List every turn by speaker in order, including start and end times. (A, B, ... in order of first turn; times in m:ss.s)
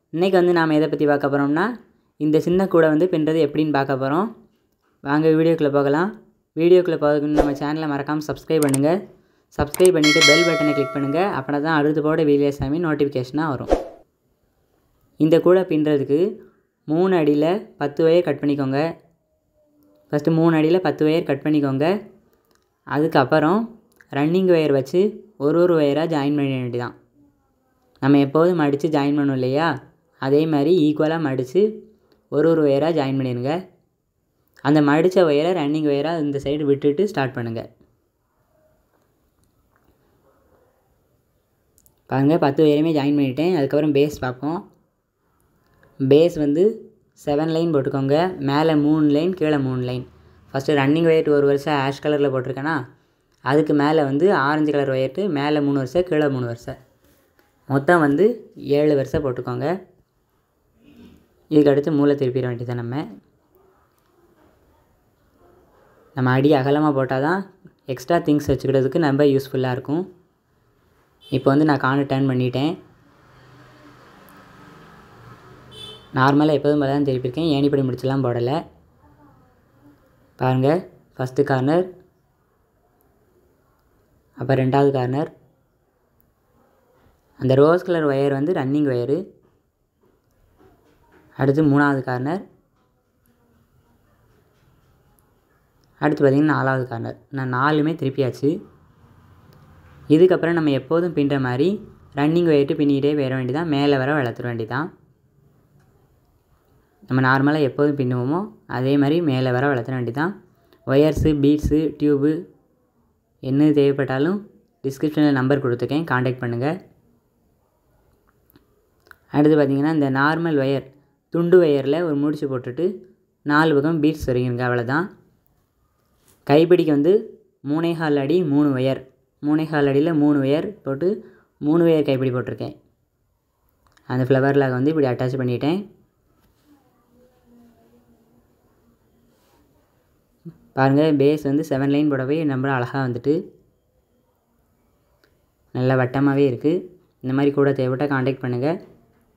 0:00.2-0:01.7 A
0:02.2-0:04.3 A
0:05.0-0:08.9 A
0:09.6-0:13.7 A
0:15.2-0:16.2 A
0:16.9-0:18.8 A
0:20.1-0:21.9 A
0:22.9-0:23.6 A
0:24.2-0:26.9 A
0:28.0-0:29.7 A
0:30.2-0:31.7 A
0:32.3-0:33.6 A
0:34.6-0:37.7 A
0:42.1-0:44.6 A
0:46.1-0:46.7 A
0:47.2-0:52.8 A
0:53.5-0:56.8 A
0:57.7-0:59.7 A
1:01.5-1:03.0 A
1:06.2-1:10.0 A
1:11.3-1:12.7 A
1:16.2-1:18.6 A
1:20.4-1:21.9 A
1:24.4-1:25.3 A
1:27.4-1:29.2 A
1:31.4-1:32.4 A
1:36.0-1:38.5 A
1:40.1-1:44.9 A
1:47.1-1:50.3 A
1:50.9-1:52.4 A
1:53.4-1:56.7 A
1:59.3-2:02.9 A
2:03.5-2:05.1 A
2:06.5-2:07.2 A
2:07.7-2:11.1 A
2:11.6-2:12.7 A
2:14.1-2:15.8 A
2:20.8-2:23.4 A
2:25.7-2:28.7 A